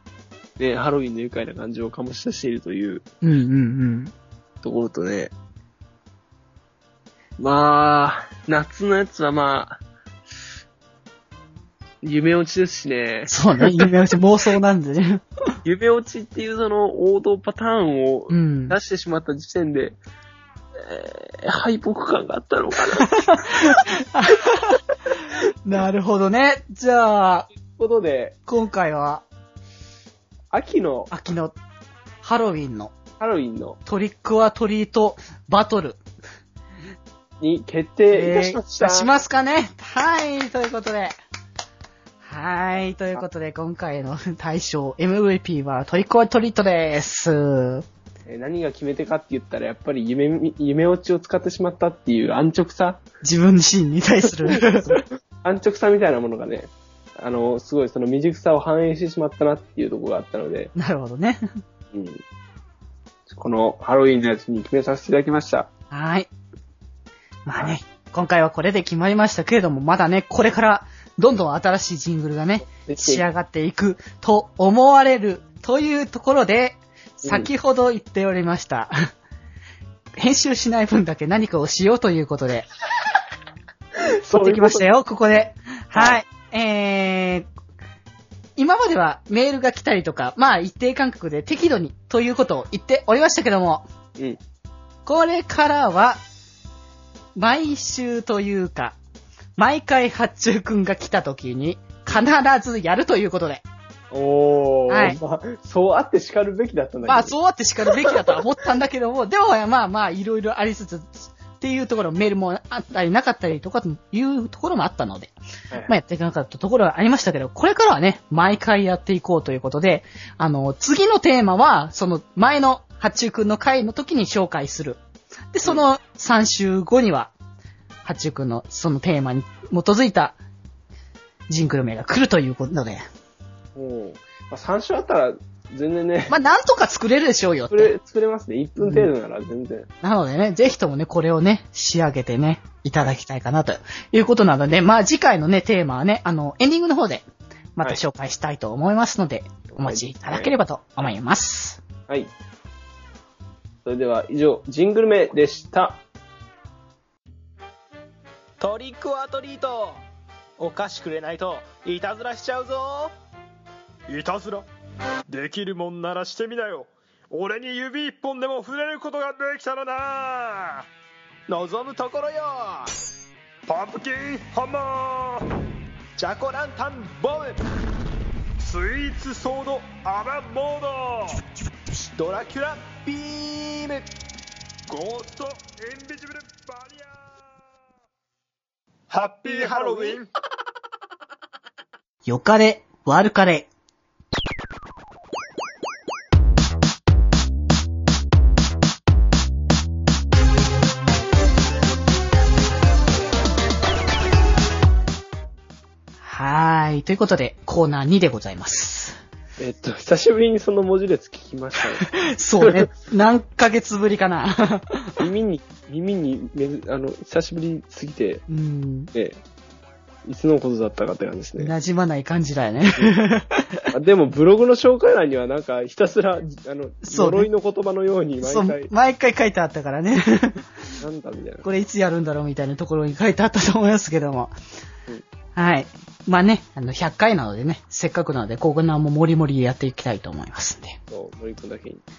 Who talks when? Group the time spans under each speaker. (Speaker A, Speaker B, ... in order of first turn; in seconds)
Speaker A: 0.6-3.0, 4.6-5.3, 7.4-9.8, 12.0-13.8, 15.7-20.0, 20.8-23.6, 27.6-28.4, 30.5-31.1, 33.2-33.8, 37.4-39.1, 48.2-53.0, 54.5-60.7, 61.9-62.2, 63.3-65.7, 72.7-73.2, 77.2-77.5, 84.0-84.9, 85.9-86.2, 104.1-107.3, 107.9-108.4, 133.8-136.4, 137.7-139.9, 149.7-150.5, 153.8-156.0, 209.6-212.9, 215.2-218.4, 219.1-219.4, 220.2-221.7, 223.9-228.9, 231.0-231.7, 241.1-242.0
Speaker B: 3.2-4.1, 13.3-15.2, 18.3-18.8, 23.0-27.5, 28.5-29.2, 31.1-31.6, 32.2-32.9, 33.9-36.0, 38.1-41.1, 42.2-47.9, 53.2-55.0, 60.8-61.4, 65.9-66.3, 67.5-79.0, 80.2-82.7, 84.3-87.5, 88.6-93.9, 95.1-96.2, 97.4-99.0, 99.6-103.6, 104.9-105.2, 107.1-115.3, 115.9-125.0, 125.5-127.3, 128.0-130.4, 131.5-133.1, 136.3-137.9, 138.8-139.1, 140.0-151.8, 192.2-193.7, 206.2-209.2, 212.0-215.2, 218.5-219.1, 221.6-223.9, 227.0-227.5, 228.4-230.7, 231.6-234.5, 235.6-241.0
Speaker C: 158.6-160.0, 160.6-163.1, 171.5-172.9, 176.2-177.6, 182.2-184.1, 189.4-190.2
Speaker D: 164.1-164.7, 165.3-170.8, 173.7-175.5, 178.6-181.4, 184.9-187.1, 189.1-190.3